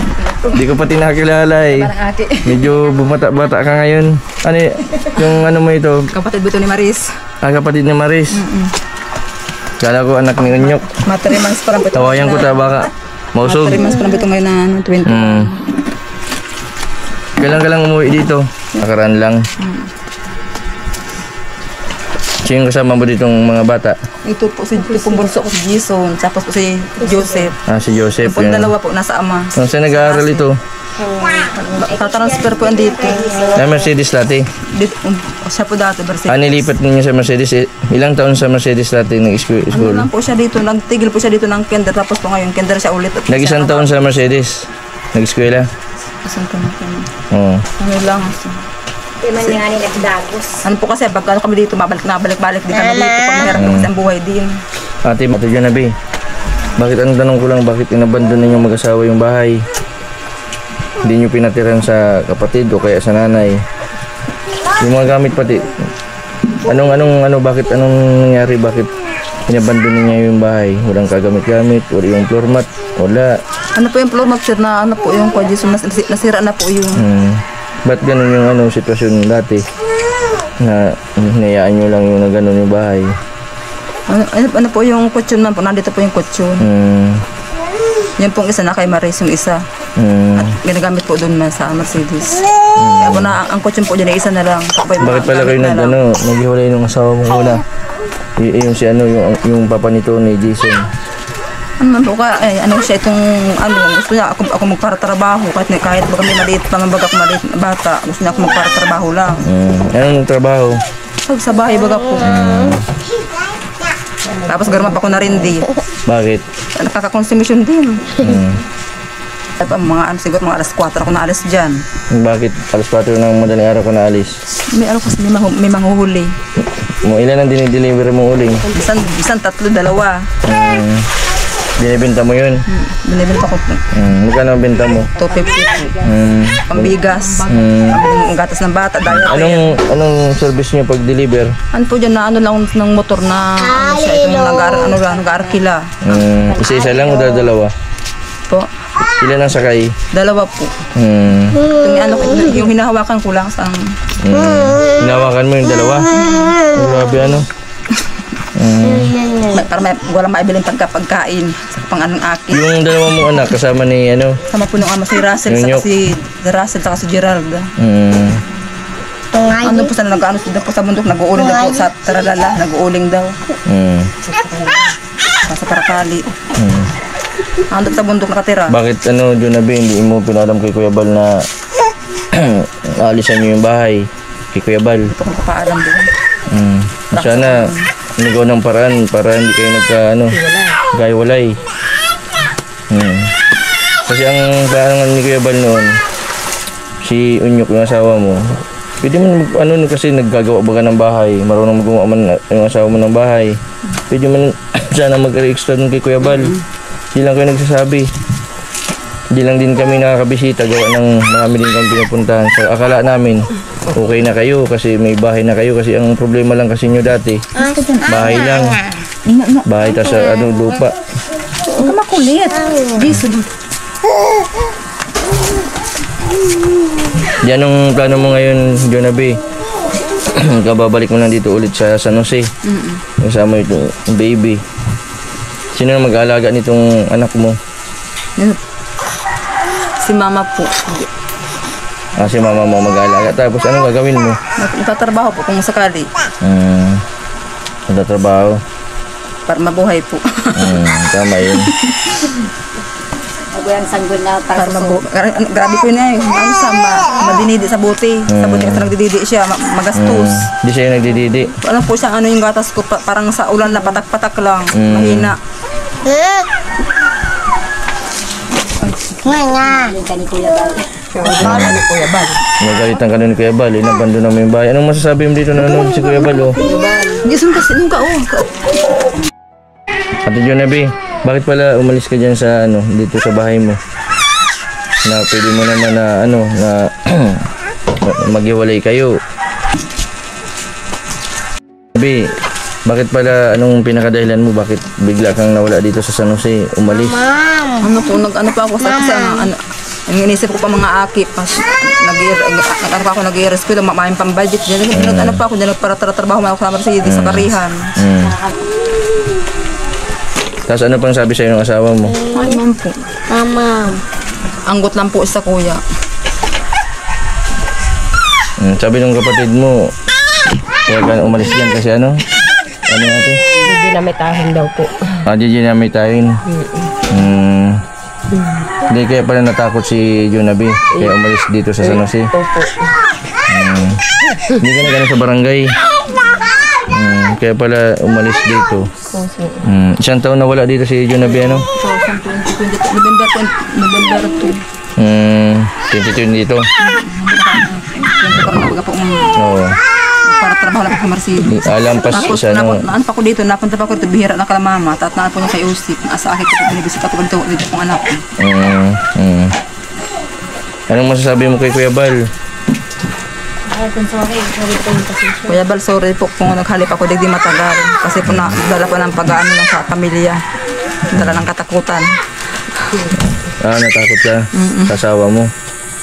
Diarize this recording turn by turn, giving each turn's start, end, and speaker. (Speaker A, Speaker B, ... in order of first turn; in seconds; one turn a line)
Speaker A: 0.5-1.9
Speaker B: 1.7-2.7
Speaker A: 2.4-6.1
Speaker B: 6.1-7.1
Speaker A: 7.4-8.4
Speaker B: 8.3-8.7
Speaker A: 9.8-10.9
Speaker B: 10.9-12.6
Speaker A: 11.9-13.9
Speaker B: 13.4-15.7
Speaker A: 15.1-15.5
Speaker A: 17.4-19.4
Speaker B: 19.6-19.9
Speaker A: 22.4-24.0
Speaker B: 24.2-27.6
Speaker C: 24.9-25.2
Speaker C: 27.1-27.5
Speaker A: 27.7-28.7
Speaker B: 28.2-30.5
Speaker A: 29.6-30.6
Speaker D: 31.1-33.9
Speaker B: 31.6-33.4
Speaker A: 33.6-34.5
Speaker B: 34.7-36.7
Speaker A: 36.3-40.1
Speaker B: 39.7-44.2
Speaker A: 43.3-45.7
Speaker B: 46.2-47.1
Speaker A: 47.3-47.7
Speaker B: 47.8-48.6
Speaker D: 49.2-50.6
Speaker B: 50.6-54.6
Speaker A: 53.5-53.9
Speaker A: 55.0-55.9
Speaker A: 56.8-59.6
Speaker A: 61.0-63.6
Speaker A: 64.8-65.7
Speaker A: 66.7-68.9
Speaker A: 69.5-73.4
Speaker B: 73.8-77.1
Speaker A: 77.0-79.7
Speaker A: 80.6-83.2
Speaker B: 84.1-86.7
Speaker A: 86.6-87.2
Speaker B: 88.2-89.6
Speaker A: 90.0-90.6
Speaker B: 90.4-96.0
Speaker A: 92.8-93.4
Speaker A: 95.0-97.6
Speaker A: 98.4-100.8
Speaker B: 101.8-109.4
Speaker A: 109.5-110.8
Speaker B: 111.2-112.4
Speaker A: 112.2-112.9
Speaker C: 114.3-115.3
Speaker B: 114.4-115.7
Speaker A: 116.1-116.5
Speaker B: 116.8-118.2
Speaker A: 118.2-118.6
Speaker B: 119.6-121.8
Speaker A: 122.1-124.4
Speaker B: 124.7-126.3
Speaker A: 126.9-128.7
Speaker C: 128.6-129.0
Speaker B: 128.7-130.3
Speaker A: 130.4-131.1
Speaker A: 131.8-132.6
Speaker B: 132.7-133.8
Speaker A: 133.9-135.1
Speaker B: 135.2-135.9
Speaker D: 135.2-136.3
Speaker A: 136.1-138.0
Speaker B: 136.7-139.8
Speaker A: 139.1-141.6
Speaker B: 141.7-146.2
Speaker D: 145.0-145.6
Speaker A: 146.1-147.7
Speaker D: 146.3-147.5
Speaker A: 149.2-149.9
Speaker B: 150.1-150.7
Speaker A: 151.0-151.7
Speaker B: 151.7-154.0
Speaker A: 154.2-156.1
Speaker B: 156.2-156.6
Speaker A: 156.7-157.5
Speaker A: 158.6-159.3
Speaker B: 159.4-162.7
Speaker A: 162.5-164.4
Speaker B: 164.5-167.7
Speaker A: 165.5-165.9
Speaker A: 167.8-168.4
Speaker B: 169.4-173.4
Speaker A: 173.7-174.1
Speaker B: 175.5-176.3
Speaker A: 176.6-176.9
Speaker B: 177.7-178.8
Speaker A: 178.7-181.3
Speaker A: 182.3-185.1
Speaker B: 185.1-186.1
Speaker A: 186.5-187.6
Speaker B: 187.1-187.9
Speaker A: 188.2-191.6
Speaker C: 190.3-190.8
Speaker A: 192.9-193.3
Speaker A: 194.1-196.0
Speaker A: 197.0-198.4
Speaker A: 199.0-203.6
Speaker A: 204.1-206.6
Speaker A: 207.1-208.1
Speaker A: 209.3-218.8
Speaker B: 217.6-218.2
Speaker B: 219.2-219.7
Speaker A: 219.7-221.0
Speaker B: 221.7-223.5
Speaker A: 227.4-229.4
Speaker A: 230.3-232.5
Speaker B: 232.6-233.0
Speaker A: 233.2-234.6
Speaker A: 235.8-237.6
Speaker B: 240.0-241.1
Speaker A: 242.2-244.4
Speaker B: 244.6-246.1
Speaker A: 246.4-247.0
Speaker A: 247.9-248.6
Speaker B: 249.5-250.8
Speaker A: 250.6-251.7
Speaker B: 251.5-252.4
Speaker D: 253.5-255.0
Speaker B: 254.6-260.5
Speaker A: 258.3-258.9
Speaker A: 259.9-261.5
Speaker B: 261.6-265.4
Speaker A: 264.7-265.3
Speaker B: 268.8-269.4
Speaker D: 269.3-271.6
Speaker C: 271.2-272.1
Speaker B: 271.2-272.4
Speaker A: 271.4-271.8
Speaker A: 272.6-276.6
Speaker C: 276.6-277.2
Speaker B: 276.6-278.6
Speaker A: 280.2-283.8
Speaker A: 285.1-287.5
Speaker A: 288.0-289.1
Speaker A: 292.0-292.2
Speaker A: 292.9-297.3
Speaker B: 297.8-307.9
Speaker A: 304.9-305.4
Speaker A: 307.0-308.4
Speaker D: 308.4-308.6
Speaker A: 310.7-312.3
Speaker B: 312.3-313.2
Speaker C: 313.4-314.0
Speaker B: 314.7-315.8
Speaker A: 318.6-319.9
Speaker A: 320.9-322.2
Speaker A: 322.9-323.4
Speaker C: 323.6-325.2
Speaker A: 325.2-326.4
Speaker C: 326.5-327.1
Speaker A: 327.1-327.8
Speaker C: 328.3-328.9
Speaker A: 328.9-332.3
Speaker C: 331.8-332.9
Speaker A: 333.5-334.0
Speaker C: 334.3-334.6
Speaker A: 334.6-335.8
Speaker A: 336.9-338.9
Speaker C: 339.1-339.6
Speaker A: 339.6-341.7
Speaker B: 341.7-344.6
Speaker A: 345.0-346.7
Speaker B: 346.8-349.4
Speaker A: 349.4-349.8
Speaker B: 350.2-358.2
Speaker A: 351.5-352.8
Speaker A: 358.4-359.5
Speaker A: 360.9-362.2
Speaker C: 363.7-365.6
Speaker B: 365.5-370.4
Speaker A: 368.3-368.6
Speaker B: 371.1-372.1
Speaker A: 371.1-371.5
Speaker C: 372.9-373.2
Speaker A: 373.6-375.5
Speaker B: 374.5-375.0